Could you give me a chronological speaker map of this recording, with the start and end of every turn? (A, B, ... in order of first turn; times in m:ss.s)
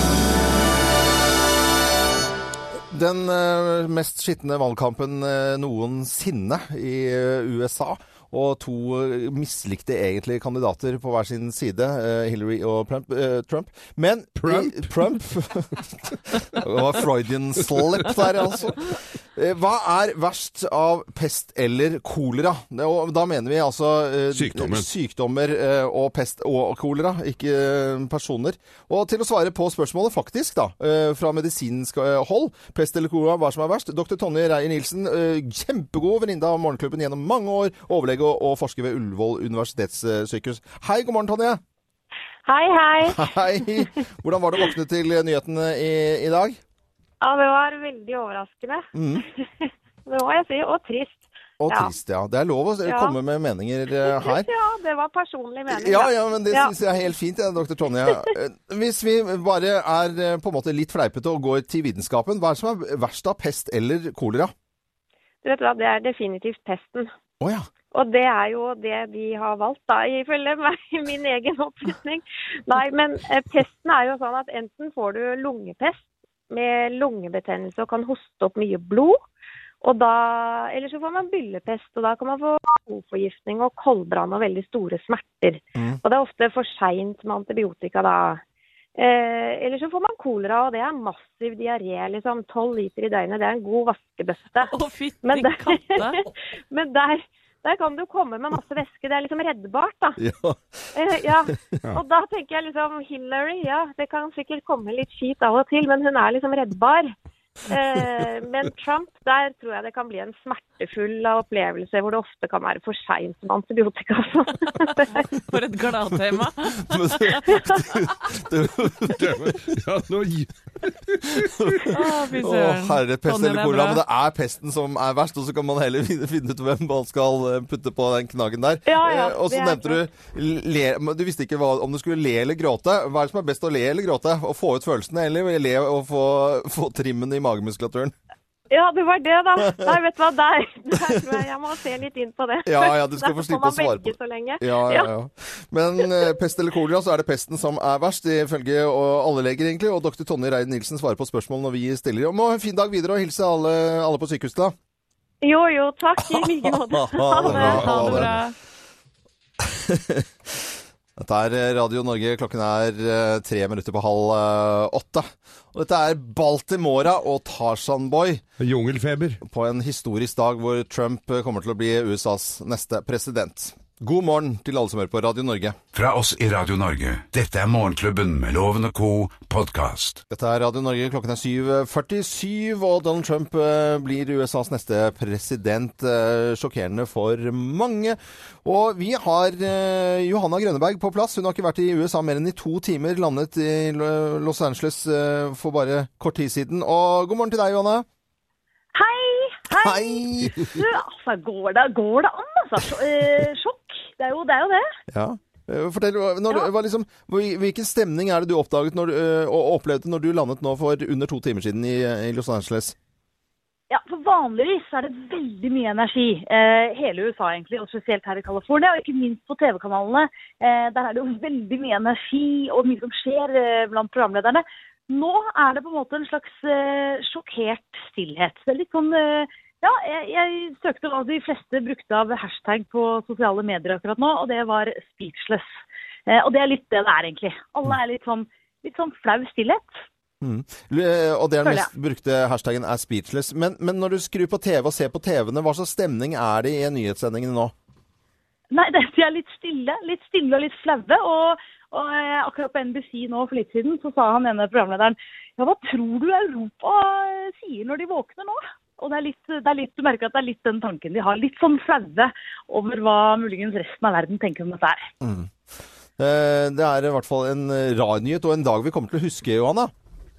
0:02.9-0:41.6 A
0:14.4-0:14.9 B
0:24.3-0:24.9 B
0:42.4-0:43.3 C
0:43.0-0:46.6 A
0:47.2-0:48.8 C
0:48.9-0:49.2 A
0:49.4-0:51.9 C
0:51.6-0:54.5 A
0:52.8-0:53.1 C
0:54.0-0:56.7 C
0:55.7-1:04.5 A
1:05.4-1:07.1 C
1:07.4-1:07.6 A
1:07.9-1:19.2 C
1:19.8-1:28.4 C
1:29.0-1:34.7 C
1:34.6-1:36.3 D
1:35.2-1:36.1 C
1:36.7-1:40.2 C
1:40.2-1:40.9 A
1:40.9-1:47.1 C
1:47.7-1:55.2 C
1:55.4-1:57.6 D
1:56.8-1:59.5 A
1:59.2-2:01.9 B
2:01.6-2:18.1 A
2:01.9-2:04.0 D
2:08.8-2:10.0 C
2:18.7-2:25.1 C
2:22.6-2:34.7 A
2:35.4-2:38.2 C
2:36.9-2:38.4 A
2:37.4-2:38.2 B
2:37.5-2:38.5 D
2:39.6-2:48.4 A
2:48.6-2:49.4 B
2:49.4-2:55.8 A
2:55.9-3:00.2 E
3:00.3-3:18.0 A
3:18.9-3:24.8 F
3:19.7-3:20.6 A
3:25.1-3:33.0 A
3:33.9-3:55.7 F
3:56.3-4:00.0 F
4:00.4-4:07.7 A
4:01.6-4:01.9 F
4:08.7-4:25.0 F
4:25.2-4:25.5 A
4:26.2-4:29.9 A